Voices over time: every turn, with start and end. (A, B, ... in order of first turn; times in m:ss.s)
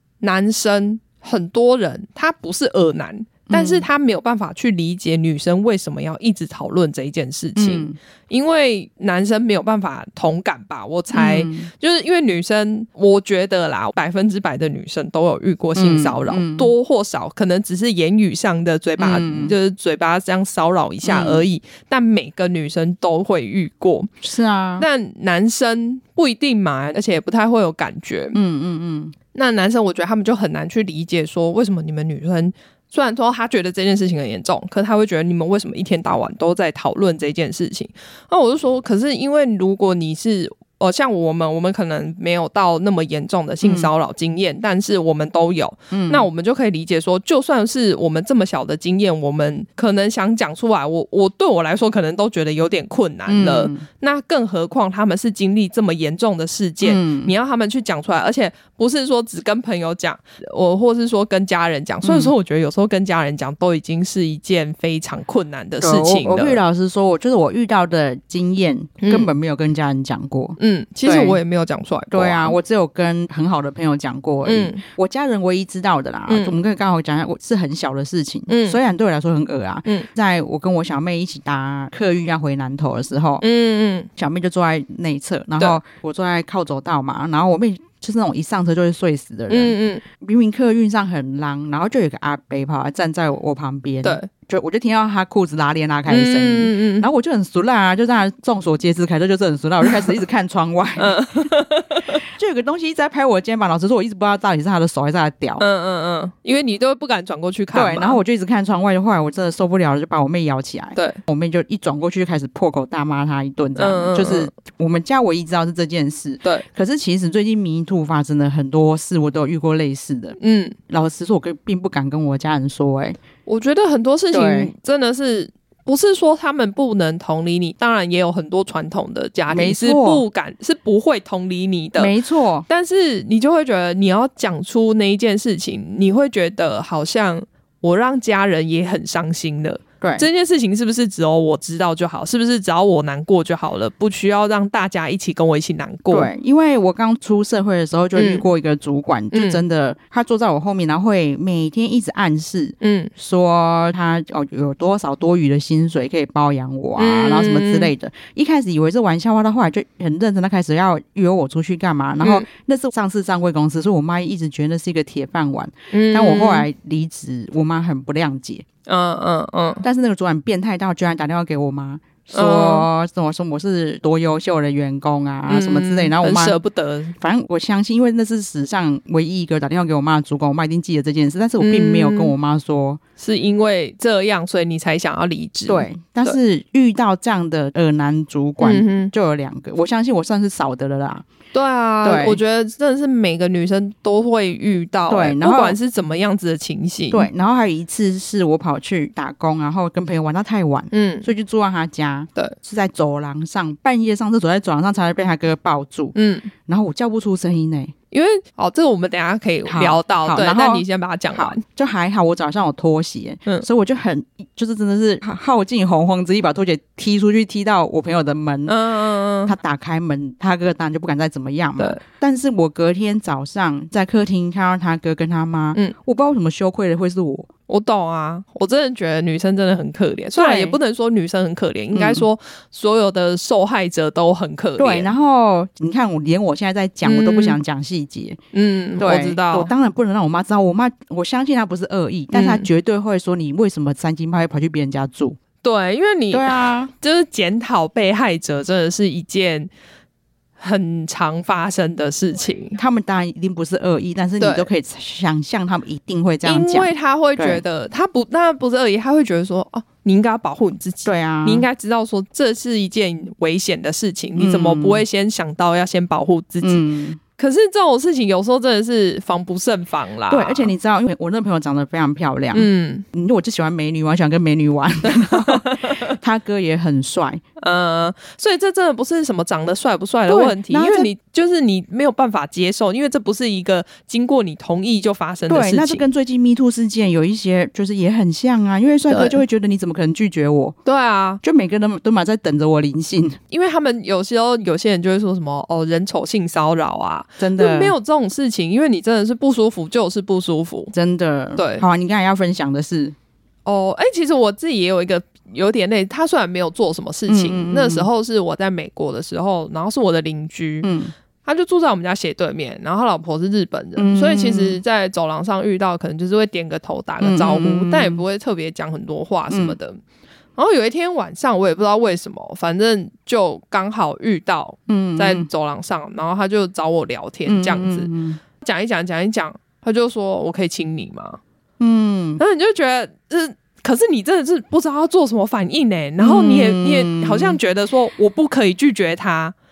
0:00.2-0:24.1 A
0:03.5-0:03.9 B
0:07.6-0:07.9 B
0:11.1-0:11.7 B
0:15.8-0:16.7 B
0:19.0-0:19.5 B
0:21.0-0:21.4 B
0:24.2-0:24.8 B
0:24.8-0:28.4 A
0:28.3-0:29.1 B
0:29.3-1:06.6 A
0:43.6-0:43.9 B
0:45.9-0:46.3 B
0:53.3-0:53.8 B
0:56.8-0:57.3 B
1:02.0-1:02.3 B
1:05.8-1:11.4 B
1:09.0-1:09.3 A
1:10.6-1:12.6 A
1:12.1-1:23.4 B
1:14.4-1:14.8 A
1:16.3-1:16.6 A
1:18.5-1:18.8 A
1:23.4-1:24.1 A
1:24.2-1:41.2 B
1:29.5-1:30.0 A
1:34.0-1:34.3 A
1:36.1-1:37.1 A
1:41.0-1:42.2 A
1:42.3-1:45.6 B
1:45.6-1:48.2 A
1:47.7-2:00.4 B
1:53.8-1:54.5 A
2:00.4-2:00.8 A
2:00.9-2:03.2 B
2:03.4-2:12.1 A
2:04.3-2:04.7 B
2:09.5-2:10.2 B
2:12.0-2:12.6 B
2:12.7-2:26.3 A
2:20.0-2:20.3 B
2:26.1-2:48.6 B
2:28.2-2:28.4 A
2:29.3-2:29.6 A
2:32.8-2:33.1 A
2:37.0-2:37.9 A
2:42.2-2:42.4 A
2:45.9-2:46.6 A
2:48.8-2:49.8 A
2:49.8-2:56.6 B
2:52.3-2:52.8 A
2:55.5-2:57.1 A
2:57.2-3:03.0 B
3:01.6-3:02.3 A
3:03.2-3:06.4 A
3:05.7-3:11.2 B
3:08.6-3:09.1 A
3:11.5-3:17.3 A
3:12.0-3:12.4 B
3:15.1-3:15.8 B
3:17.1-3:26.1 B
3:20.9-3:21.3 A
3:26.1-3:26.5 A
3:26.6-3:27.9 B
3:28.1-3:31.6 A
3:29.7-3:38.8 B
3:38.7-3:39.5 A
3:39.4-3:47.5 B
3:47.7-3:55.1 A
3:50.3-3:50.8 B
3:51.9-3:52.2 B
3:54.8-3:58.4 B
3:57.0-3:57.6 A
3:58.5-3:59.7 A
3:59.0-4:05.4 B
4:02.3-4:02.7 A
4:05.6-4:09.7 A
4:06.3-4:06.9 B
4:10.6-4:12.8 A
4:12.8-4:17.6 B
4:14.4-4:14.7 A
4:16.4-4:26.8 A
4:21.0-4:21.6 B
4:24.4-4:25.0 B
4:26.6-4:27.2 B
4:27.4-4:30.7 A
4:30.3-4:37.4 B
4:32.5-4:33.0 A
4:35.0-4:36.2 A
4:37.6-4:46.0 A
4:40.3-4:41.1 B
4:45.5-4:50.8 B
4:49.1-4:49.4 A
4:50.8-4:51.4 A
4:51.4-4:53.4 B
4:53.5-5:00.9 A
4:57.4-4:57.9 B
5:00.9-5:03.1 B
5:01.6-5:01.8 A
5:03.6-5:10.9 A
5:07.3-5:08.1 B
5:10.8-5:11.1 B
5:11.4-5:20.0 A
5:14.0-5:14.8 B
5:17.2-5:18.2 B
5:19.5-5:19.8 B
5:20.6-5:31.4 A
5:24.9-5:25.5 B
5:27.4-5:28.4 B
5:31.8-5:32.4 B
5:32.4-5:39.5 A
5:36.2-5:37.6 B